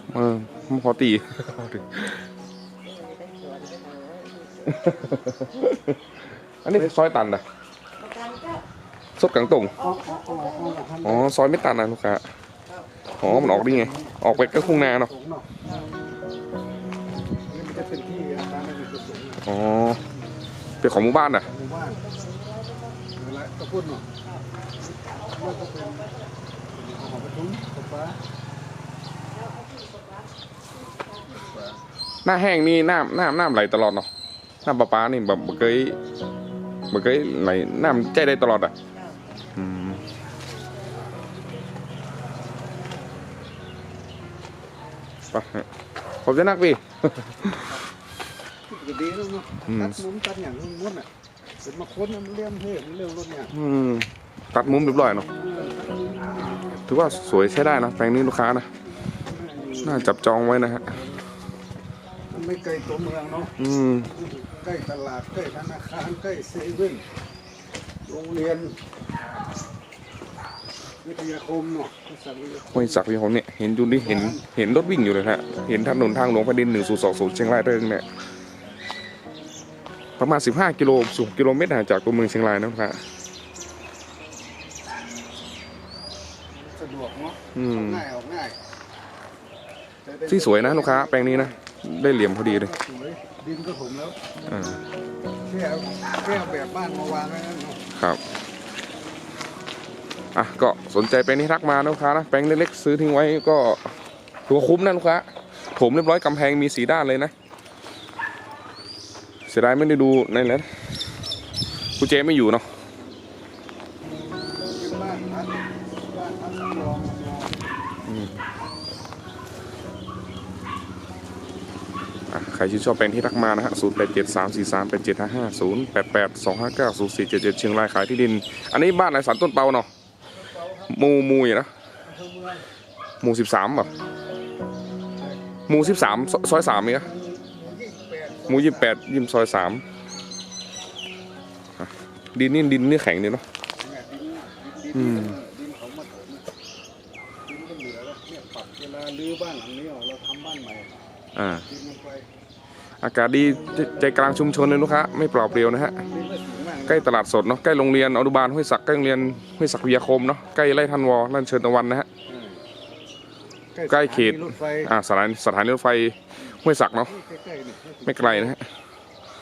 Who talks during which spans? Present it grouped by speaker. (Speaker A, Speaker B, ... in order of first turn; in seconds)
Speaker A: 0.1-2.2, 4.7-6.0, 6.6-7.4, 9.2-9.7, 11.0-12.2, 13.2-15.1, 19.4-20.0, 20.8-21.5, 32.2-34.1, 34.6-36.0, 36.9-38.7, 39.5-40.0, 45.3-45.7, 46.2-47.5, 49.7-50.0, 53.5-55.3, 56.9-58.7, 59.8-60.9, 63.6-64.1, 72.7-78.0, 80.2-83.0, 87.5-88.0, 90.3-92.7, 94.5-94.8, 97.9-98.2, 100.3-103.8, 104.5-107.3, 109.5-110.7, 112.0-112.7, 118.0-118.4, 122.3-129.9, 130.9-131.7, 133.2-133.9, 135.7-137.1, 138.5-139.8, 141.8-143.4, 144.9-145.4, 151.3-151.7, 153.0-156.0, 156.9-162.1, 163.9-167.1, 168.0-168.6
Speaker B: 2.8-5.3, 8.0-8.6, 9.8-10.8, 12.7-13.0, 22.0-23.0, 25.3-26.2, 29.3-30.3, 30.8-31.5, 40.5-41.7
Speaker C: 9.8-11.3, 13.2-15.5, 17.5-19.4, 20.8-22.0, 23.1-24.1, 24.9-26.1, 26.7-28.2, 31.3-31.8, 48.7-51.1, 51.6-53.5, 54.6-56.9, 59.2-61.2, 62.3-63.5, 64.1-67.0, 68.0-68.8, 71.0-73.0, 74.0-74.4, 86.5-88.6, 90.0-91.6, 92.4-94.2, 95.4-97.8, 114.6-117.6, 130.4-130.9, 132.0-132.6, 136.9-138.9, 143.8-146.5, 147.4-151.0, 151.7-152.2, 153.7-154.1, 155.5-157.1, 162.2-162.6, 163.7-164.9, 166.9-168.5